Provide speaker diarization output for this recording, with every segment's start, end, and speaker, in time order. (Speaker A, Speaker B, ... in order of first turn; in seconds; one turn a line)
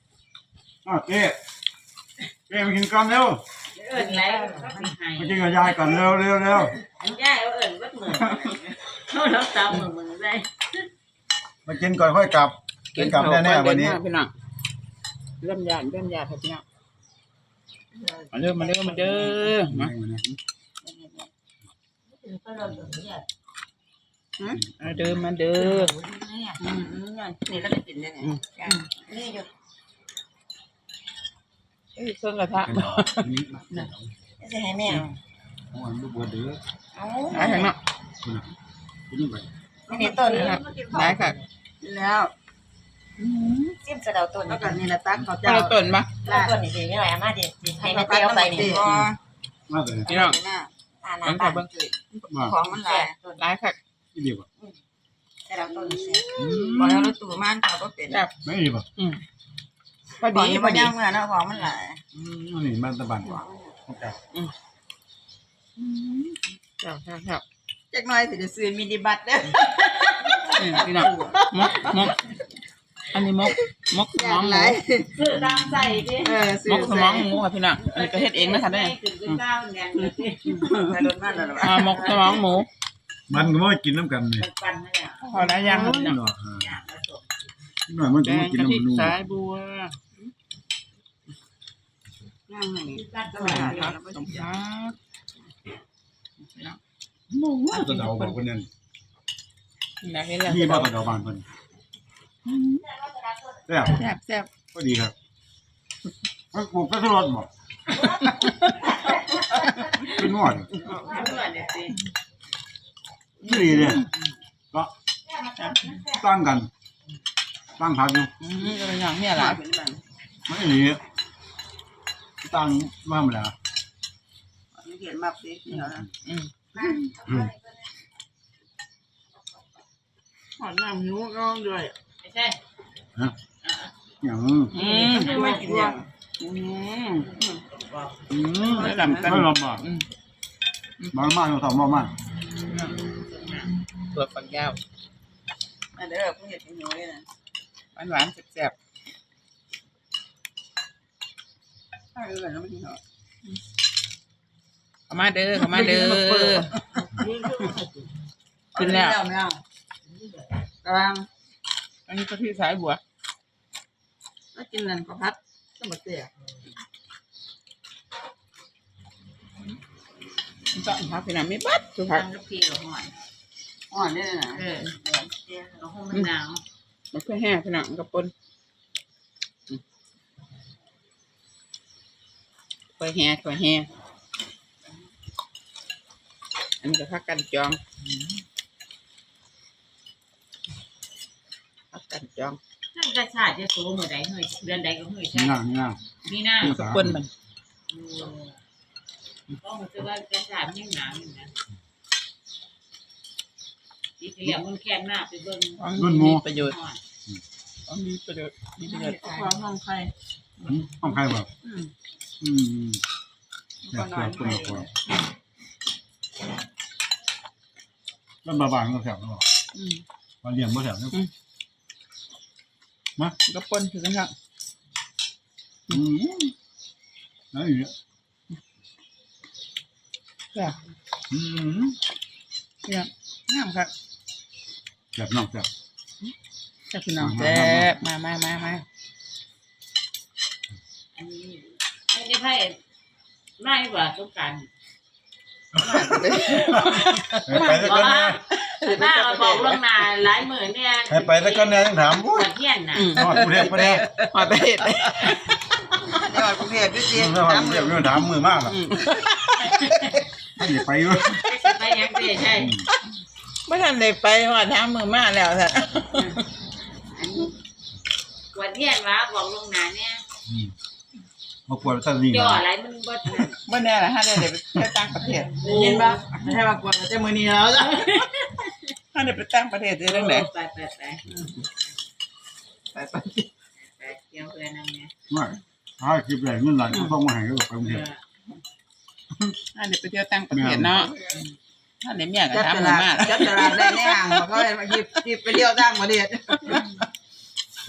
Speaker A: 0.8-1.4
Speaker A: 2.5-3.4
Speaker B: 3.7-10.9
Speaker C: 4.1-4.9
Speaker A: 5.2-6.7
Speaker A: 11.7-14.0
Speaker D: 12.9-14.3
Speaker D: 15.4-16.6
Speaker C: 17.9-19.5
Speaker D: 18.3-19.9
Speaker A: 19.6-20.2
Speaker C: 20.8-21.3
Speaker E: 22.1-23.2
Speaker C: 22.5-23.1
Speaker A: 24.5-25.2
Speaker D: 24.6-25.9
Speaker C: 25.6-29.5
Speaker D: 28.2-28.8
Speaker D: 31.9-33.3
Speaker A: 32.6-34.1
Speaker C: 34.4-35.1
Speaker A: 35.7-36.6
Speaker C: 36.9-37.7
Speaker E: 37.1-37.5
Speaker D: 37.3-37.8
Speaker A: 39.1-39.5
Speaker E: 39.9-40.6
Speaker C: 39.9-42.3
Speaker D: 40.2-41.4
Speaker D: 43.2-43.8
Speaker E: 43.8-44.8
Speaker C: 43.9-49.2
Speaker D: 45.4-46.2
Speaker E: 46.2-48.9
Speaker D: 48.8-49.1
Speaker A: 49.7-50.1
Speaker D: 50.1-50.4
Speaker C: 50.1-50.7
Speaker E: 51.0-51.8
Speaker D: 51.2-51.7
Speaker C: 51.4-53.2
Speaker A: 52.3-52.5
Speaker E: 52.5-53.4
Speaker D: 53.4-53.8
Speaker A: 54.1-54.5
Speaker E: 55.5-56.4
Speaker C: 55.6-58.2
Speaker D: 55.8-56.8
Speaker A: 56.4-57.2
Speaker A: 58.4-58.9
Speaker D: 60.2-60.9
Speaker C: 60.2-62.0
Speaker A: 62.1-64.2
Speaker C: 63.2-63.7
Speaker D: 66.8-67.4
Speaker C: 67.9-72.1
Speaker B: 70.3-72.0
Speaker D: 70.5-72.2
Speaker D: 73.1-74.8
Speaker C: 74.1-75.2
Speaker B: 75.1-76.4
Speaker C: 76.2-77.3
Speaker D: 76.6-78.9
Speaker B: 77.8-80.8
Speaker D: 80.0-80.9
Speaker C: 80.6-82.4
Speaker D: 81.6-82.7
Speaker A: 83.3-84.5
Speaker B: 84.4-87.7
Speaker D: 85.2-86.2
Speaker A: 85.6-86.7
Speaker A: 87.9-89.1
Speaker D: 88.2-90.0
Speaker C: 92.5-94.5
Speaker B: 92.9-94.0
Speaker D: 93.5-95.0
Speaker D: 96.5-96.8
Speaker A: 97.3-98.7
Speaker D: 97.7-98.4
Speaker D: 100.0-100.9
Speaker A: 100.4-101.5
Speaker D: 102.5-102.8
Speaker A: 103.7-104.0
Speaker D: 103.9-104.5
Speaker A: 104.7-105.1
Speaker A: 106.5-107.5
Speaker D: 108.0-110.1
Speaker A: 110.0-110.9
Speaker D: 110.8-111.3
Speaker B: 110.9-112.0
Speaker C: 110.9-111.2
Speaker A: 113.4-114.0
Speaker D: 113.4-114.0
Speaker C: 115.3-116.2
Speaker D: 115.6-116.0
Speaker A: 116.0-116.7
Speaker A: 117.8-118.3
Speaker D: 118.4-119.6
Speaker C: 119.3-120.0
Speaker A: 120.5-121.0
Speaker A: 122.4-123.5
Speaker C: 124.8-126.1
Speaker D: 125.7-127.1
Speaker C: 126.8-127.1
Speaker A: 127.2-127.5
Speaker C: 130.6-131.9
Speaker B: 132.2-132.6
Speaker B: 133.6-133.9
Speaker A: 134.2-134.8
Speaker D: 134.7-135.9
Speaker B: 134.8-136.0
Speaker C: 134.8-137.6
Speaker B: 137.7-138.2
Speaker A: 138.3-139.8
Speaker C: 138.6-139.4
Speaker D: 138.7-140.1
Speaker A: 141.1-142.1
Speaker B: 143.3-143.7
Speaker D: 144.1-144.8
Speaker C: 145.9-147.2
Speaker D: 147.9-148.7
Speaker C: 152.1-153.0
Speaker D: 155.1-156.7
Speaker C: 155.6-157.7
Speaker B: 157.1-158.1
Speaker D: 158.8-159.2
Speaker C: 158.8-159.6
Speaker B: 160.1-160.5
Speaker C: 160.8-161.3
Speaker D: 162.1-163.0
Speaker C: 164.5-166.3
Speaker D: 170.7-172.2
Speaker B: 172.1-173.1
Speaker C: 173.9-175.8
Speaker B: 174.5-174.9
Speaker B: 175.8-176.6
Speaker D: 177.1-178.3
Speaker D: 183.0-183.9
Speaker D: 186.8-187.8
Speaker D: 191.9-192.6
Speaker B: 192.9-195.6
Speaker A: 195.3-196.0
Speaker B: 196.2-196.8
Speaker A: 196.6-197.2
Speaker D: 196.6-197.3
Speaker B: 197.9-198.6
Speaker B: 199.6-201.5
Speaker B: 204.2-205.8
Speaker D: 205.8-206.8
Speaker A: 206.0-206.4
Speaker B: 206.4-207.0
Speaker D: 207.9-209.5
Speaker C: 208.9-210.1
Speaker A: 210.7-211.5
Speaker C: 211.6-211.9
Speaker A: 212.4-213.0
Speaker C: 213.8-214.9
Speaker A: 213.9-214.9
Speaker A: 218.4-219.4
Speaker D: 219.8-220.0
Speaker A: 220.4-221.2
Speaker D: 223.4-224.3
Speaker A: 225.9-226.5
Speaker A: 227.5-227.9
Speaker A: 231.3-232.0
Speaker D: 232.8-233.9
Speaker A: 235.1-235.7
Speaker D: 236.9-238.8
Speaker A: 237.2-238.0
Speaker B: 241.1-242.8
Speaker B: 243.6-244.7
Speaker A: 245.7-248.4
Speaker D: 245.8-247.9
Speaker B: 247.6-253.1
Speaker D: 248.6-249.8
Speaker A: 251.1-252.5
Speaker D: 252.9-255.6
Speaker A: 253.1-254.1
Speaker C: 253.3-254.2
Speaker C: 255.9-258.1
Speaker A: 257.1-258.8
Speaker D: 258.7-259.9
Speaker B: 259.6-260.3
Speaker A: 260.6-261.6
Speaker B: 261.4-262.7
Speaker A: 262.6-262.9
Speaker D: 263.6-266.4
Speaker B: 268.5-270.2
Speaker A: 270.5-270.7
Speaker A: 271.7-272.6
Speaker B: 272.2-273.6
Speaker D: 273.5-275.5
Speaker B: 275.3-276.2
Speaker C: 275.6-278.2
Speaker B: 277.8-278.9
Speaker D: 279.1-280.5
Speaker B: 280.1-281.2
Speaker D: 282.9-283.5
Speaker B: 283.8-285.1
Speaker A: 285.3-288.1
Speaker B: 287.8-288.6
Speaker D: 289.7-291.1
Speaker A: 290.5-291.0
Speaker C: 290.9-291.4
Speaker B: 291.3-291.6
Speaker D: 292.0-294.6
Speaker C: 292.5-296.9